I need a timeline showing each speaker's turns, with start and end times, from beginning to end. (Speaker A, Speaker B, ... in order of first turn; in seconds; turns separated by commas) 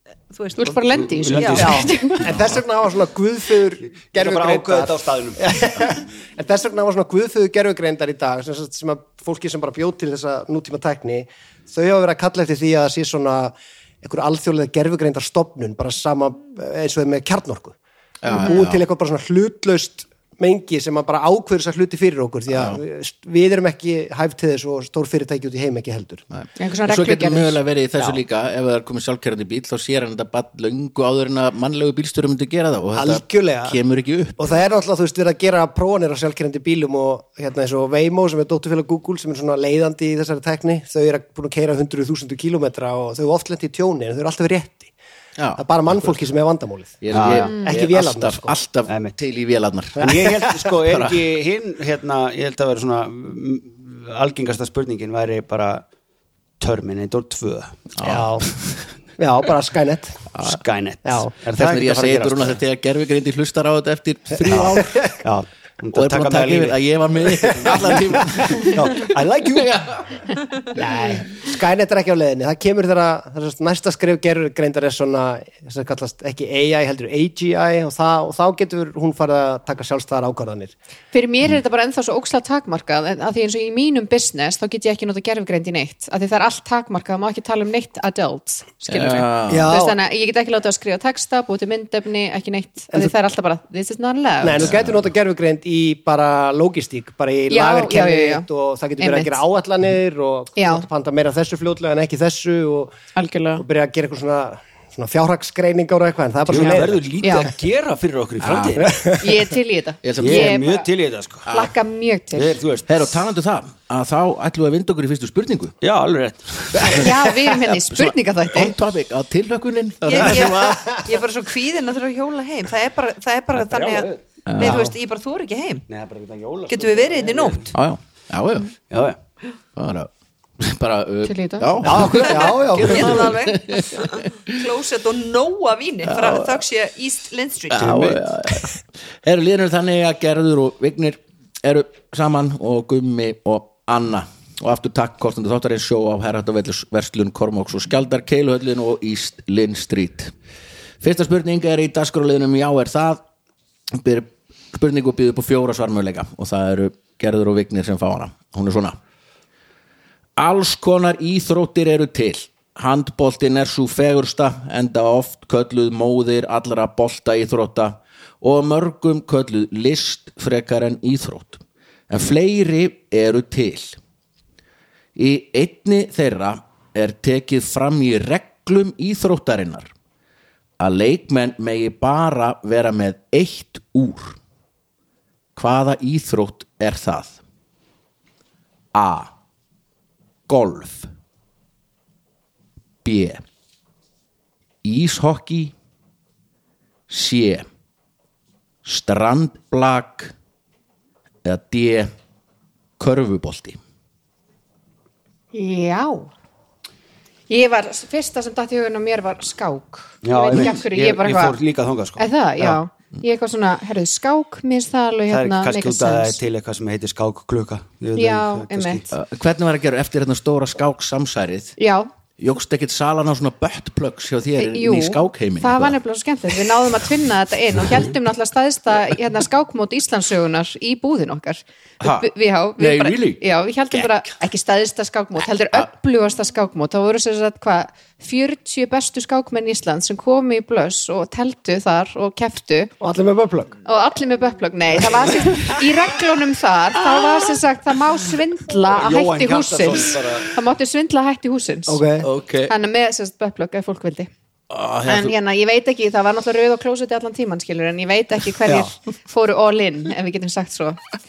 Speaker A: 0.3-1.8, Speaker B: 0.6-2.3, Speaker C: 0.9-2.1, Speaker D: 1.6-17.8, Speaker C: 3.8-5.4, Speaker E: 18.2-18.8, Speaker B: 18.3-18.5, Speaker D: 18.3-26.2, Speaker E: 22.5-22.8, Speaker E: 26.3-34.5, Speaker B: 26.6-27.6, Speaker D: 33.0-33.8, Speaker D: 34.4-44.9, Speaker E: 45.4-46.2, Speaker D: 45.6-48.6, Speaker E: 47.0-50.3, Speaker C: 47.1-47.6, Speaker C: 48.9-49.2, Speaker C: 50.0-55.8, Speaker D: 50.0-50.6, Speaker E: 50.8-51.2, Speaker C: 56.6-57.9, Speaker E: 58.0-58.9, Speaker D: 58.0-58.6, Speaker D: 59.2-60.3, Speaker C: 60.4-62.6, Speaker D: 61.0-61.3, Speaker E: 61.5-65.0, Speaker C: 64.5-66.8, Speaker D: 64.5-65.2, Speaker E: 65.9-70.2, Speaker D: 67.5-68.7, Speaker C: 68.7-69.7, Speaker D: 70.7-80.7, Speaker B: 81.1-94.7, Speaker E: 88.9-89.7, Speaker D: 89.5-90.0, Speaker D: 94.4-103.0, Speaker E: 94.6-95.1, Speaker B: 97.5-98.5, Speaker B: 99.0-99.4, Speaker B: 100.5-100.8, Speaker B: 103.1-103.6, Speaker D: 103.6-107.2, Speaker C: 106.5-109.0, Speaker B: 107.2-107.5, Speaker E: 108.4-108.9, Speaker D: 108.8-109.3, Speaker B: 109.2-110.9, Speaker E: 110.0-110.6, Speaker C: 110.2-111.6, Speaker E: 111.5-111.7, Speaker B: 111.5-112.6, Speaker C: 112.3-112.9, Speaker E: 112.9-115.7, Speaker C: 115.8-117.0, Speaker E: 116.7-117.0, Speaker B: 116.8-118.7, Speaker E: 117.7-121.0, Speaker A: 120.0-125.8, Speaker D: 120.5-120.8, Speaker C: 123.6-124.2, Speaker E: 124.5-124.9, Speaker C: 125.9-127.7, Speaker A: 126.7-127.7, Speaker E: 127.7-128.7, Speaker C: 128.9-129.2, Speaker E: 129.7-134.6, Speaker B: 131.2-131.9, Speaker D: 131.8-133.3, Speaker A: 132.1-138.1, Speaker E: 136.1-136.6, Speaker E: 137.7-150.3, Speaker C: 137.8-138.2, Speaker E: 151.0-153.2, Speaker E: 153.9-159.0, Speaker E: 160.4-174.0, Speaker E: 175.1-179.9, Speaker E: 180.8-184.4, Speaker E: 185.6-187.4, Speaker E: 188.9-189.3, Speaker E: 190.5-191.1, Speaker E: 193.0-193.4, Speaker E: 194.8-195.7, Speaker E: 197.1-197.7, Speaker E: 198.8-200.3, Speaker E: 201.4-202.1, Speaker E: 203.0-203.8, Speaker B: 205.5-206.3, Speaker B: 207.5-211.6, Speaker C: 210.2-212.8, Speaker B: 212.2-216.4, Speaker C: 215.3-219.1, Speaker B: 218.1-219.1, Speaker E: 219.1-221.8, Speaker B: 221.8-222.1, Speaker E: 222.4-226.0, Speaker B: 224.6-242.9, Speaker E: 232.0-233.4, Speaker D: 243.0-243.8, Speaker B: 243.8-252.0, Speaker E: 247.1-247.6, Speaker C: 248.9-250.5, Speaker D: 251.9-252.3, Speaker E: 252.2-252.7, Speaker B: 252.7-254.3, Speaker E: 254.7-255.3, Speaker B: 255.1-261.0, Speaker C: 258.6-258.9